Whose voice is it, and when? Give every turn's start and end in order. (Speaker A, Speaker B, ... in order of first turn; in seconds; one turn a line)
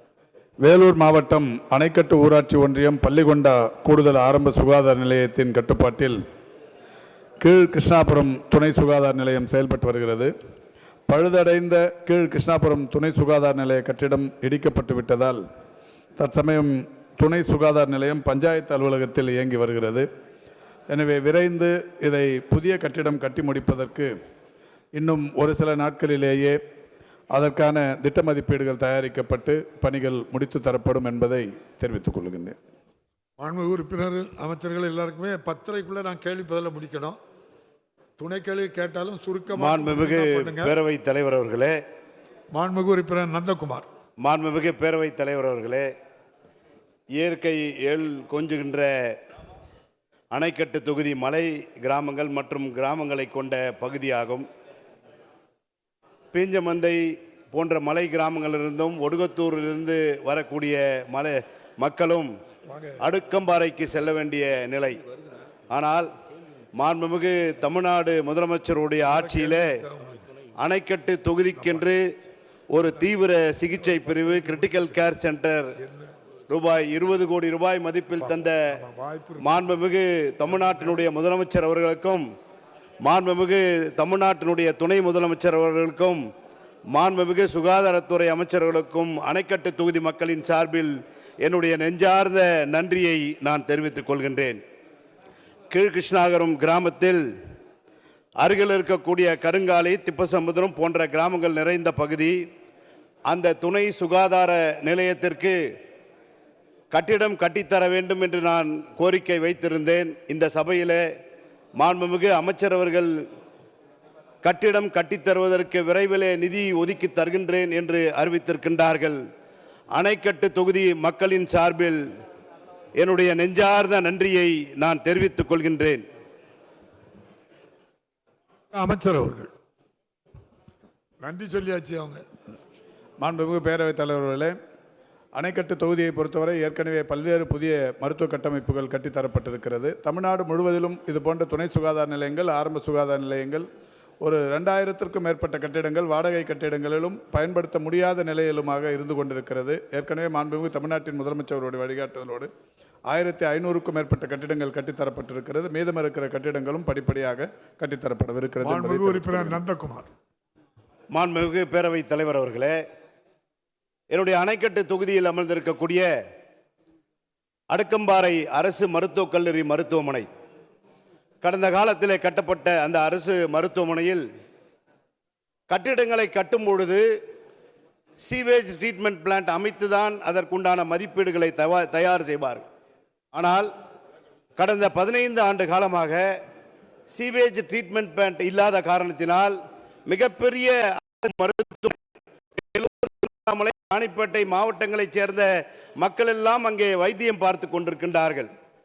Speaker A: 0.6-6.2
Speaker A: 7.4-10.3
Speaker A: 11.1-15.4
Speaker A: 16.2-20.1
Speaker A: 20.9-24.1
Speaker A: 25.0-26.6
Speaker A: 27.3-32.5
Speaker B: 33.4-37.2
Speaker B: 38.2-40.7
Speaker C: 39.5-41.8
Speaker B: 42.5-43.9
Speaker C: 44.2-45.9
Speaker C: 47.2-49.1
Speaker C: 50.3-54.5
Speaker C: 56.3-62.3
Speaker B: 62.7-63.1
Speaker C: 63.0-65.0
Speaker C: 65.7-66.1
Speaker C: 66.8-69.8
Speaker B: 69.0-70.2
Speaker C: 70.6-72.0
Speaker C: 72.7-75.7
Speaker B: 74.0-74.6
Speaker B: 75.8-76.1
Speaker C: 76.5-78.8
Speaker B: 78.2-79.8
Speaker C: 79.4-82.2
Speaker C: 83.0-86.2
Speaker C: 86.9-90.9
Speaker C: 91.4-94.6
Speaker C: 95.7-97.2
Speaker C: 98.4-102.4
Speaker C: 103.3-105.6
Speaker C: 106.9-111.0
Speaker C: 111.8-113.1
Speaker C: 114.4-119.2
Speaker C: 119.9-122.0
Speaker C: 123.0-126.0
Speaker B: 128.7-129.5
Speaker B: 131.2-132.2
Speaker A: 133.2-134.5
Speaker A: 135.3-143.7
Speaker A: 144.2-152.5
Speaker A: 153.1-159.6
Speaker B: 158.6-160.1
Speaker C: 161.1-162.8
Speaker C: 164.1-166.1
Speaker C: 167.7-170.3
Speaker C: 171.4-174.2
Speaker C: 175.7-177.0
Speaker C: 178.2-182.6
Speaker C: 183.3-183.7
Speaker C: 184.6-186.3
Speaker C: 187.1-189.6
Speaker C: 190.1-192.0
Speaker C: 192.6-198.5